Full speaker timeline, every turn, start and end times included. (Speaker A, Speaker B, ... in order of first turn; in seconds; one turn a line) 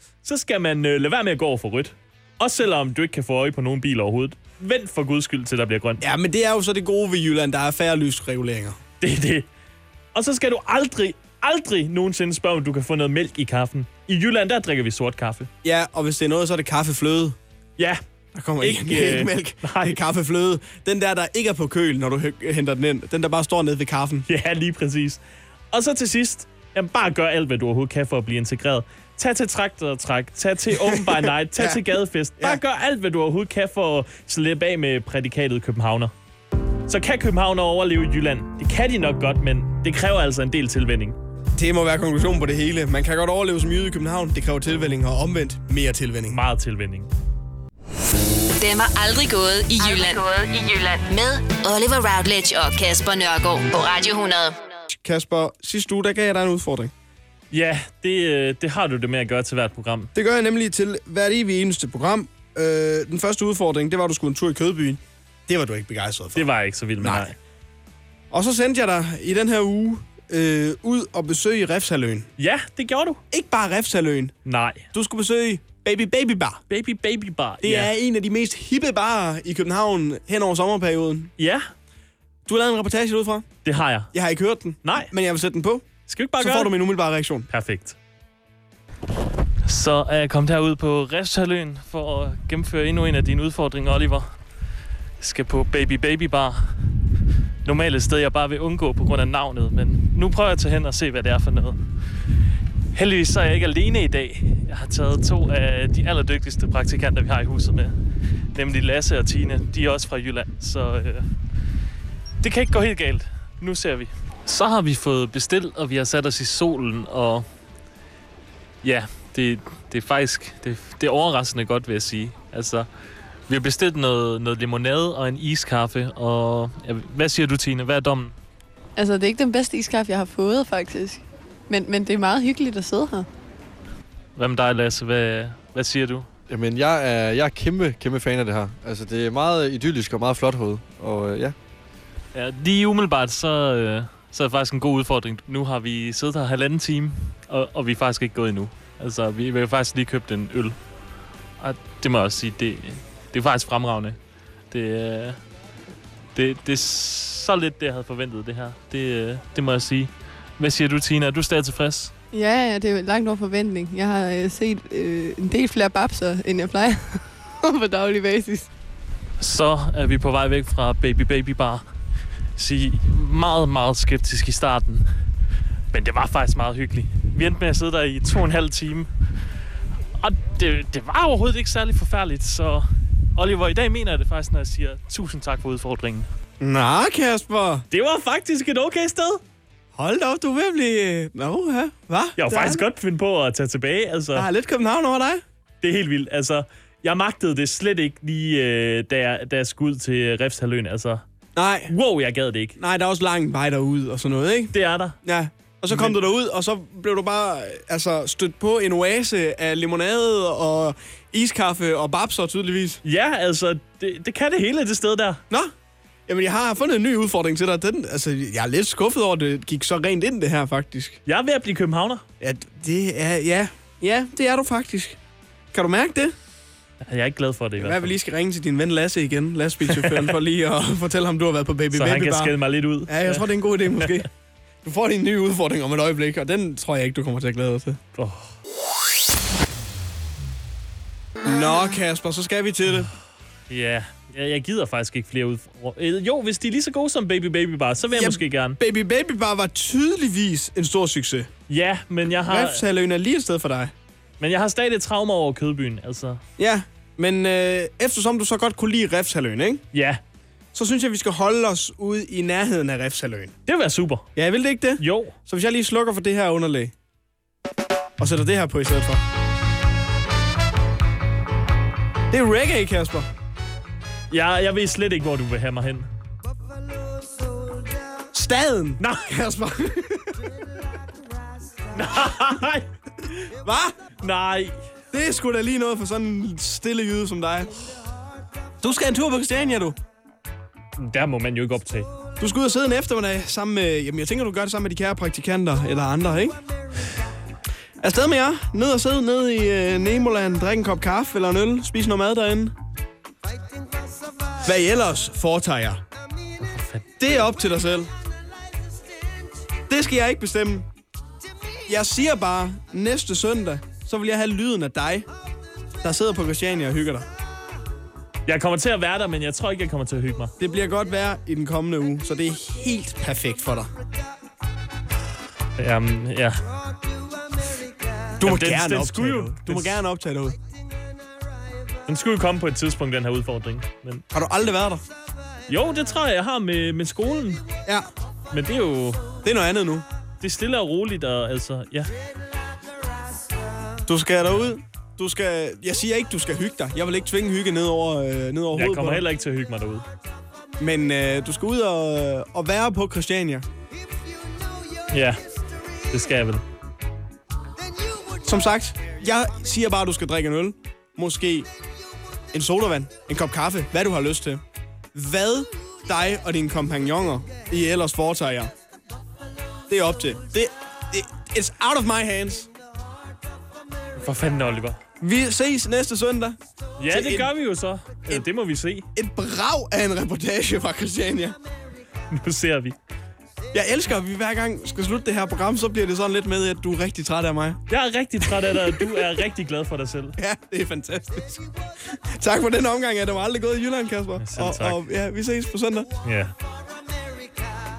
Speaker A: 0.2-6.0
Speaker B: 6.0-8.8
Speaker A: 9.0-9.5
Speaker A: 10.1-15.5
Speaker B: 15.6-17.4
Speaker B: 18.3-24.3
Speaker A: 18.6-20.0
Speaker A: 24.3-25.2
Speaker A: 25.7-36.1
Speaker B: 30.7-31.8
Speaker A: 36.9-41.2
Speaker B: 41.5-46.4
Speaker A: 46.3-47.1
Speaker C: 48.6-54.6
Speaker B: 54.9-56.9
Speaker A: 57.5-60.1
Speaker B: 60.1-66.5
Speaker A: 66.3-67.3
Speaker B: 67.0-67.3
Speaker B: 68.3-72.3
Speaker A: 72.4-73.2
Speaker B: 73.3-74.4
Speaker A: 74.5-74.9
Speaker B: 74.9-76.6
Speaker A: 76.7-77.9
Speaker B: 77.6-81.3
Speaker A: 81.4-81.7
Speaker B: 82.5-83.5
Speaker A: 83.7-84.1
Speaker B: 84.1-85.9
Speaker A: 84.8-85.1
Speaker A: 86.1-86.8
Speaker B: 86.4-87.5
Speaker A: 87.5-88.0
Speaker A: 89.7-94.2
Speaker A: 95.2-96.5
Speaker A: 97.7-101.8
Speaker A: 102.9-107.9
Speaker A: 108.5-111.2
Speaker A: 112.4-117.4
Speaker A: 118.8-122.9
Speaker A: 123.5-128.3
Speaker D: 129.0-133.3
Speaker A: 134.4-136.3
Speaker E: 136.5-141.6
Speaker A: 142.3-150.8
Speaker A: 151.6-154.2
Speaker A: 154.7-155.4
Speaker A: 156.4-162.1
Speaker D: 162.3-168.7
Speaker A: 169.4-171.8
Speaker A: 172.6-175.0
Speaker A: 175.9-179.1
Speaker A: 180.2-182.9
Speaker A: 183.4-186.2
Speaker B: 186.6-187.8
Speaker A: 187.9-189.4
Speaker B: 189.9-192.9
Speaker A: 192.4-194.5
Speaker B: 194.3-195.4
Speaker A: 195.8-201.2
Speaker B: 201.6-201.9
Speaker A: 201.9-202.8
Speaker B: 202.8-213.0
Speaker A: 204.7-205.2
Speaker A: 205.9-206.2
Speaker A: 213.0-215.4
Speaker B: 216.3-221.2
Speaker A: 221.3-222.2
Speaker B: 222.4-225.2
Speaker B: 225.7-226.3
Speaker A: 227.0-228.1
Speaker B: 227.8-232.6
Speaker A: 229.9-230.3
Speaker A: 231.9-234.2
Speaker B: 233.1-234.3
Speaker B: 234.8-238.0
Speaker A: 238.2-238.5
Speaker B: 241.4-243.1
Speaker A: 243.7-248.8
Speaker B: 248.1-251.5
Speaker A: 251.7-252.8
Speaker B: 252.5-253.9
Speaker A: 254.4-256.4
Speaker B: 256.6-259.8
Speaker A: 259.9-260.2
Speaker B: 260.7-263.5
Speaker A: 263.7-264.3
Speaker B: 264.4-266.9
Speaker A: 265.0-265.4
Speaker B: 268.2-269.2
Speaker B: 272.3-273.3
Speaker A: 274.3-276.1
Speaker B: 278.3-280.4
Speaker A: 281.9-282.9
Speaker B: 283.6-284.0
Speaker A: 284.2-284.8
Speaker B: 285.1-287.8
Speaker B: 288.8-290.0
Speaker A: 291.0-292.1
Speaker B: 292.4-296.6
Speaker B: 298.0-302.8
Speaker B: 304.6-306.0
Speaker A: 306.6-307.3
Speaker B: 307.2-308.1
Speaker B: 309.9-310.9
Speaker B: 311.9-315.3
Speaker B: 316.0-317.3
Speaker A: 318.5-320.5
Speaker B: 320.6-323.9
Speaker A: 325.8-326.6
Speaker B: 328.4-330.6
Speaker A: 328.4-330.0
Speaker A: 332.1-334.2
Speaker B: 334.3-335.0
Speaker A: 335.7-337.6
Speaker A: 338.5-339.3
Speaker B: 339.4-340.1
Speaker A: 340.4-342.1
Speaker B: 344.1-349.2
Speaker A: 348.7-350.1
Speaker B: 350.8-353.7
Speaker A: 355.1-355.4
Speaker A: 356.1-356.6
Speaker B: 358.4-361.7
Speaker B: 362.5-364.6
Speaker B: 365.1-368.7
Speaker B: 369.9-372.7
Speaker A: 374.2-375.0
Speaker B: 375.2-376.6
Speaker A: 377.0-379.1
Speaker B: 377.1-377.5
Speaker B: 379.1-381.6
Speaker A: 382.3-383.0
Speaker B: 383.7-387.8
Speaker A: 387.9-390.4
Speaker B: 388.8-389.3
Speaker B: 390.4-396.1
Speaker A: 394.4-395.0
Speaker A: 396.2-396.5